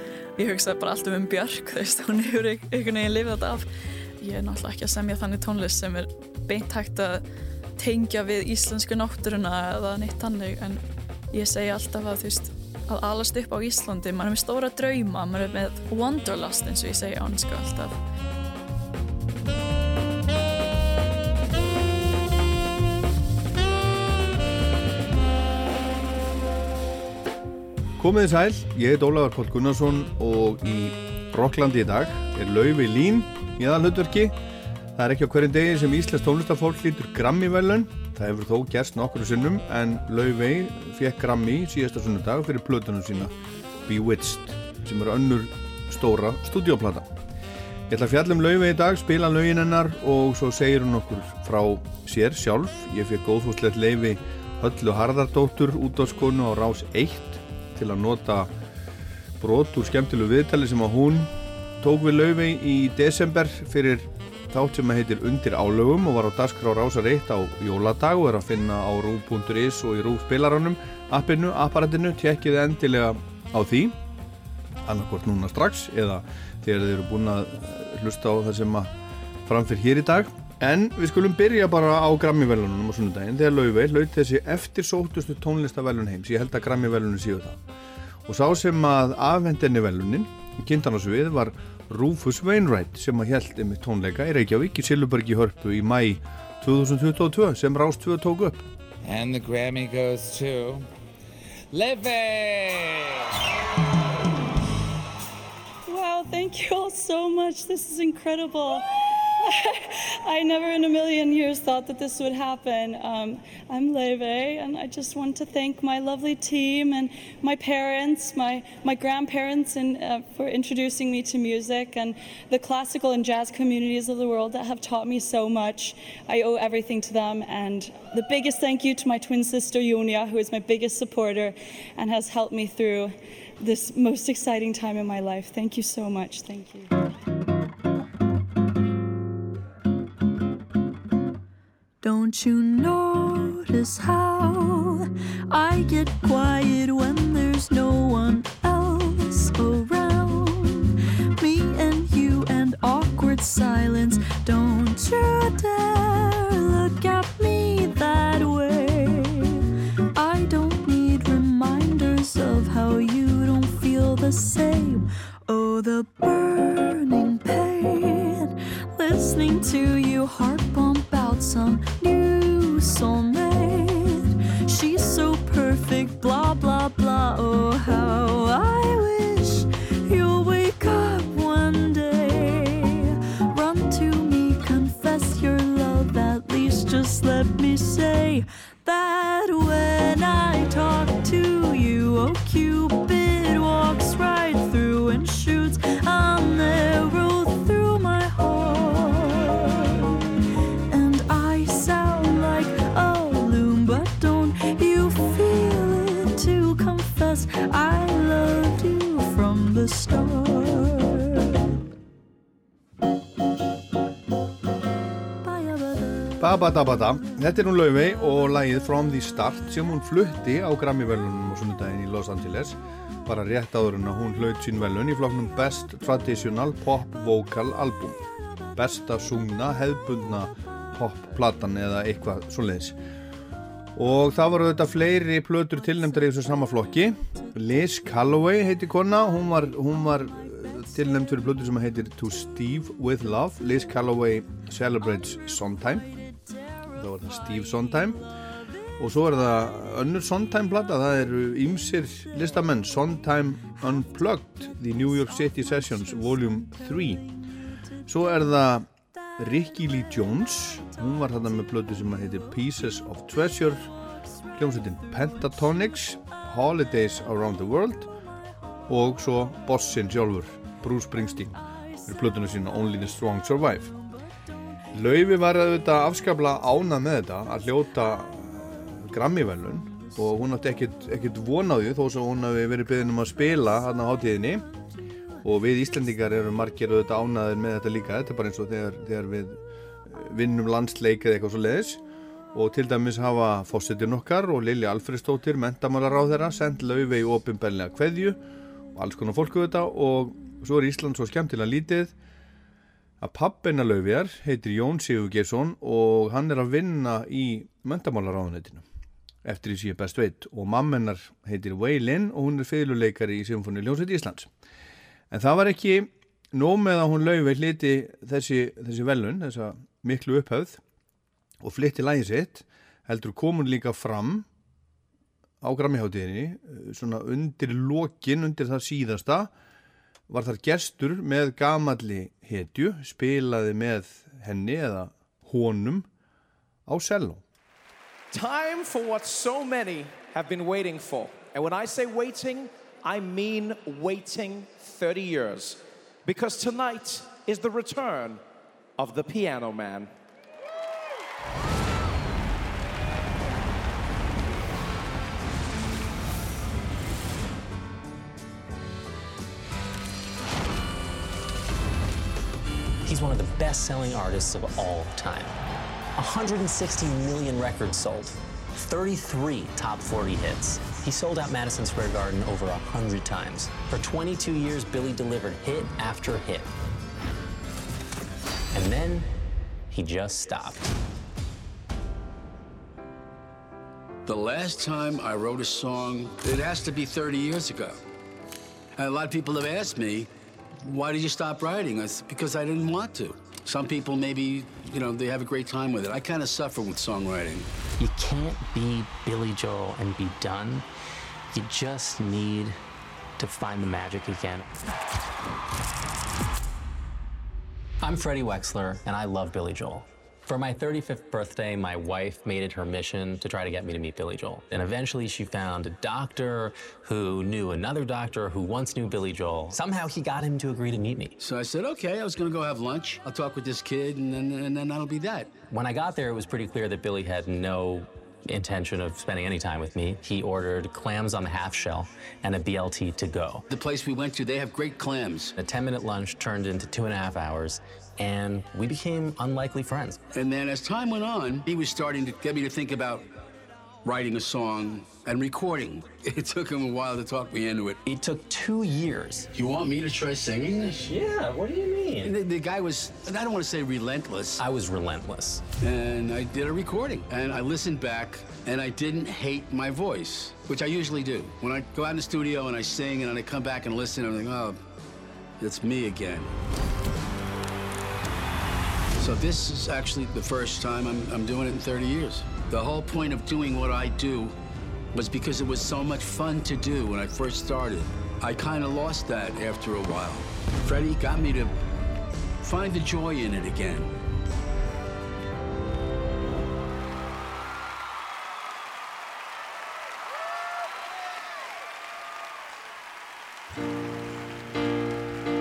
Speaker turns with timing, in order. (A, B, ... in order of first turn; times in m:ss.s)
0:00.4-0:03.7 A
0:04.2-0:07.2 A
0:07.8-0:18.0 A
0:28.0-0:34.4 B
0:35.0-0:43.3 B
0:43.8-0:47.2 B
0:47.9-0:58.5 B
0:59.4-1:14.0 B
1:14.8-1:18.9 B
1:19.4-1:27.6 B
1:28.2-1:38.6 B
1:39.0-1:40.9 C
1:41.7-1:43.3 C
1:45.8-2:16.9 D
2:22.0-3:20.1 E
3:20.9-3:31.6 E
3:35.4-3:36.4 E
3:36.4-3:48.2 B
3:48.8-3:53.0 B
3:54.0-4:06.1 B
4:06.9-4:08.2 B
4:09.0-4:17.2 B
4:18.0-4:18.9 B
4:19.4-4:23.9 B
4:24.5-4:28.1 B
4:28.9-4:33.9 B
4:34.9-4:44.6 B
4:45.4-4:52.0 B
4:52.5-4:58.4 B
4:58.9-5:02.1 B
5:03.2-5:08.8 B
5:09.4-5:14.5 B
5:15.3-5:20.8 B
5:21.6-5:24.5 B
5:25.6-5:29.5 B
5:30.3-5:36.1 B
5:36.9-5:37.4 B
5:38.3-5:48.4 F
5:49.0-5:50.1 F
6:03.0-6:05.6 G
6:06.2-6:16.7 G
6:18.7-6:19.3 G
6:19.9-6:20.8 G
6:24.2-6:28.0 H
6:29.0-6:30.3 H
6:30.8-6:37.7 H
6:38.0-6:40.8 G
6:41.5-6:42.8 G
6:43.4-6:44.7 G
6:48.0-7:01.3 G
7:01.4-7:05.5 H
7:05.7-7:13.6 G
7:13.7-7:15.5 H
7:15.6-7:20.2 G
7:20.3-7:23.3 H
7:24.0-7:28.0 H
7:28.0-7:29.5 G
7:29.5-7:31.0 H
7:30.8-7:32.3 G
7:32.2-7:34.6 H
7:34.6-7:35.6 G
7:35.8-7:44.8 H
7:45.6-7:46.5 H
7:49.2-7:54.5 H
7:55.1-8:01.8 H
8:02.6-8:04.1 H